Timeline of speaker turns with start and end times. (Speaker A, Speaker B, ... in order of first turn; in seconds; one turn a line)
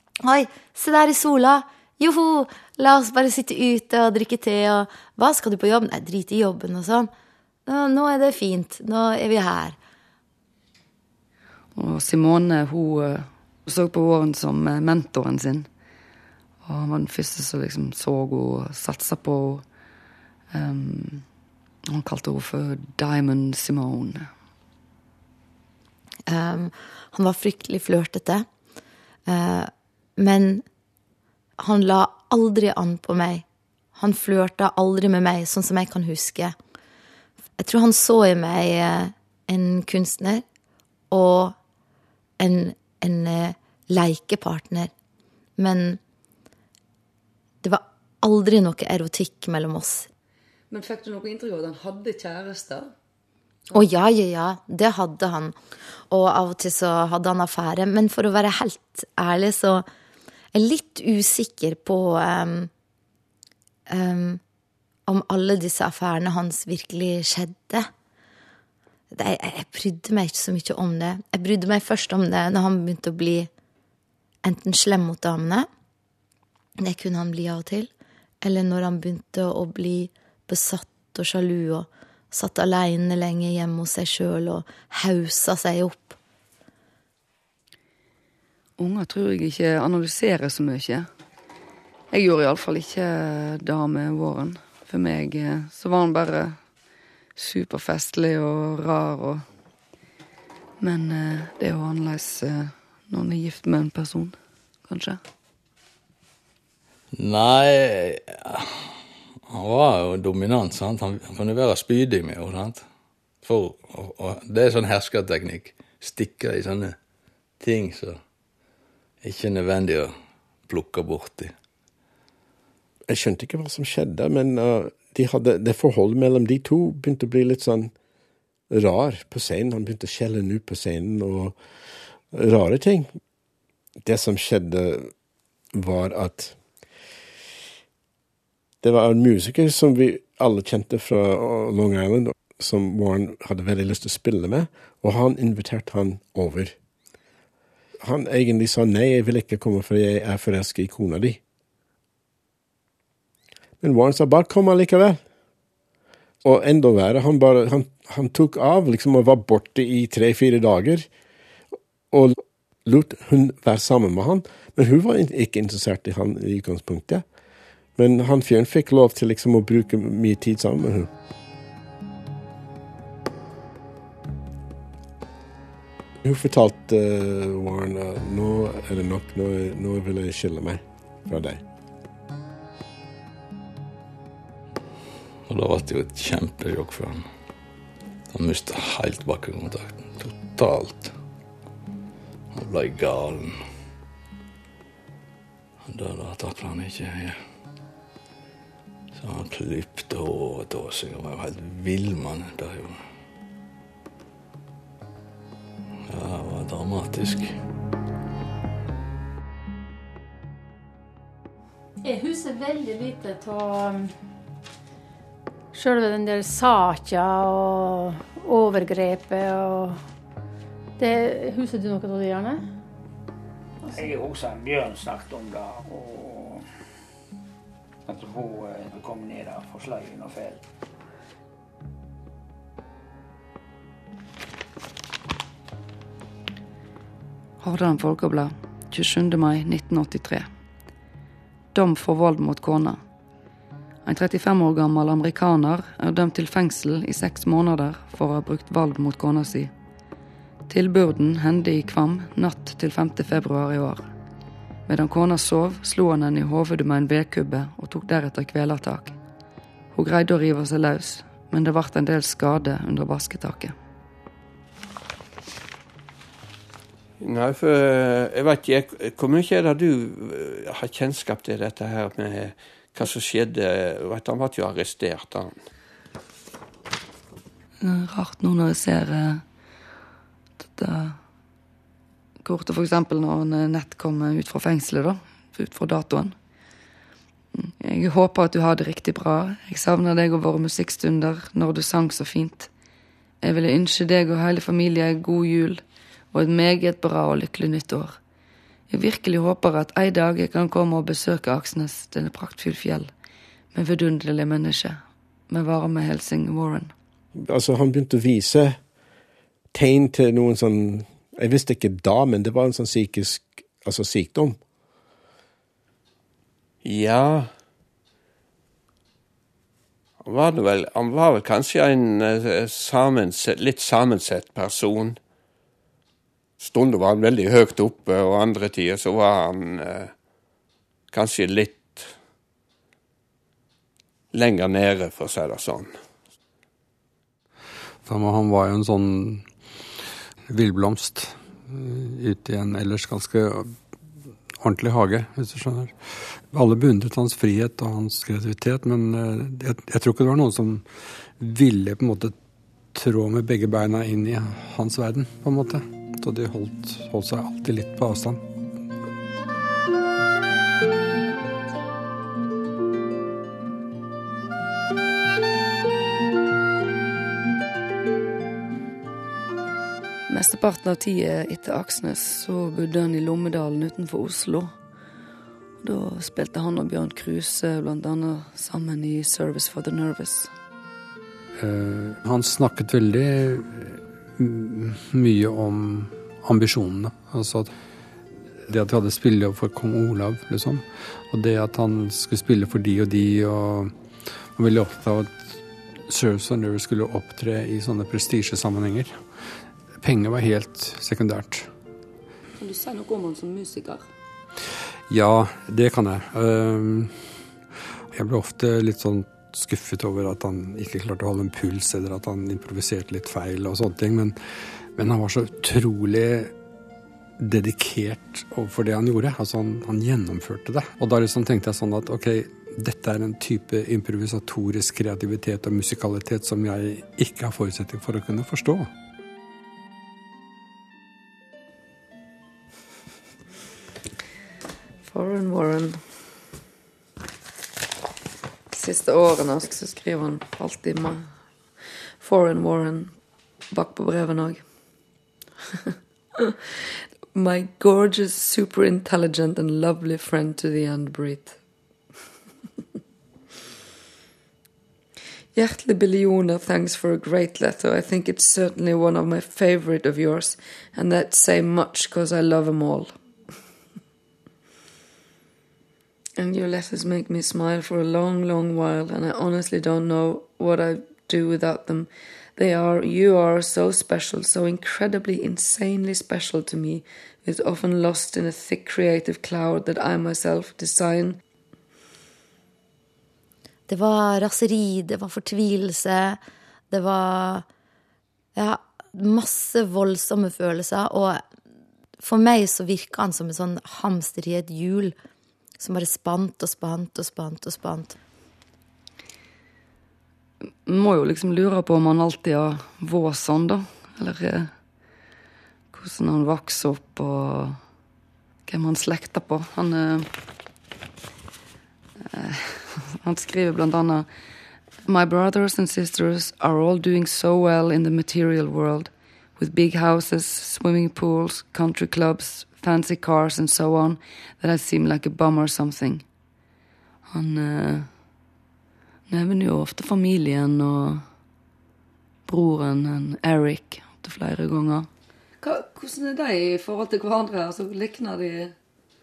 Speaker A: 0.2-7.1
Speaker A: 7.7-9.8
Speaker B: 11.8-15.7
Speaker B: 16.6-19.6
Speaker B: 20.5-21.3
Speaker B: 21.9-24.3
Speaker A: 26.3-28.5
Speaker A: 29.3-30.6
Speaker A: 31.6-33.5
Speaker A: 34.0-36.6
Speaker A: 37.6-40.4
Speaker A: 41.1-41.5
Speaker A: 42.4-44.9
Speaker A: 45.6-46.0
Speaker A: 47.6-50.1
Speaker B: 50.7-52.9
Speaker A: 53.7-55.6
Speaker A: 56.1-59.9
Speaker A: 60.5-62.7
Speaker A: 63.9-64.4
Speaker A: 65.1-67.9
Speaker A: 69.1-73.5
Speaker A: 74.4-75.7
Speaker A: 76.8-77.9
Speaker A: 78.4-86.2
Speaker B: 88.8-91.1
Speaker B: 92.1-96.6
Speaker B: 97.4-99.4
Speaker B: 100.8-104.4
Speaker B: 104.9-105.2
Speaker C: 107.1-108.9
Speaker C: 109.5-112.8
Speaker C: 113.4-117.0
Speaker C: 117.6-118.2
Speaker C: 119.2-120.1
Speaker C: 120.7-121.5
Speaker D: 123.1-127.9
Speaker D: 128.7-131.6
Speaker D: 132.3-133.2
Speaker D: 134.0-135.1
Speaker D: 135.7-136.6
Speaker D: 138.8-146.8
Speaker D: 148.0-151.4
Speaker D: 153.8-155.2
Speaker D: 156.4-161.1
Speaker D: 162.1-167.2
Speaker D: 168.0-171.1
Speaker D: 176.2-181.6
Speaker C: 185.5-187.3
Speaker C: 188.3-191.1
Speaker C: 192.5-193.6
Speaker C: 195.8-197.4
Speaker C: 199.1-203.0
Speaker C: 206.1-207.6
Speaker E: 212.0-214.1
Speaker E: 215.7-220.0
Speaker E: 221.0-222.6
Speaker E: 223.8-224.1
Speaker F: 223.9-226.7
Speaker F: 228.1-230.6
Speaker B: 237.6-240.5
Speaker B: 241.7-243.0
Speaker B: 244.1-249.7
Speaker B: 250.7-254.1
Speaker B: 254.9-259.2
Speaker B: 259.9-263.7
Speaker G: 267.2-275.6
Speaker B: 277.8-279.4
Speaker B: 280.7-281.2
Speaker B: 282.4-286.4
Speaker B: 287.6-292.7
Speaker B: 293.4-298.2
Speaker B: 298.9-303.1
Speaker B: 303.7-306.9
Speaker D: 307.4-308.8
Speaker D: 309.7-314.6
Speaker G: 316.8-317.5
Speaker G: 320.2-325.2
Speaker G: 326.6-330.2
Speaker G: 331.1-332.2
Speaker G: 334.3-336.0
Speaker H: 338.0-339.5
Speaker H: 340.5-343.8
Speaker H: 344.6-352.4
Speaker H: 352.9-358.4
Speaker B: 370.3-374.7
Speaker B: 375.8-380.5
Speaker H: 381.6-387.7
Speaker H: 388.7-399.2
Speaker H: 400.0-401.7
Speaker B: 402.6-404.1
Speaker H: 405.1-407.4
Speaker H: 408.1-416.5
Speaker H: 417.4-428.9
Speaker B: 435.1-436.0
Speaker B: 438.7-441.3
Speaker B: 442.2-443.1
Speaker B: 443.7-444.6
Speaker B: 447.3-451.6
Speaker B: 455.5-463.1
Speaker B: 466.4-481.4
Speaker A: 483.9-486.4
Speaker A: 486.9-487.7
Speaker A: 488.6-491.4
Speaker A: 492.2-495.1
Speaker A: 495.8-498.2
Speaker B: 500.9-504.7
Speaker B: 505.9-507.8
Speaker B: 508.7-510.3
Speaker B: 512.2-514.3
Speaker B: 515.0-526.2
Speaker B: 527.3-528.1
Speaker B: 529.3-531.2
Speaker B: 532.5-535.1
Speaker B: 535.6-538.7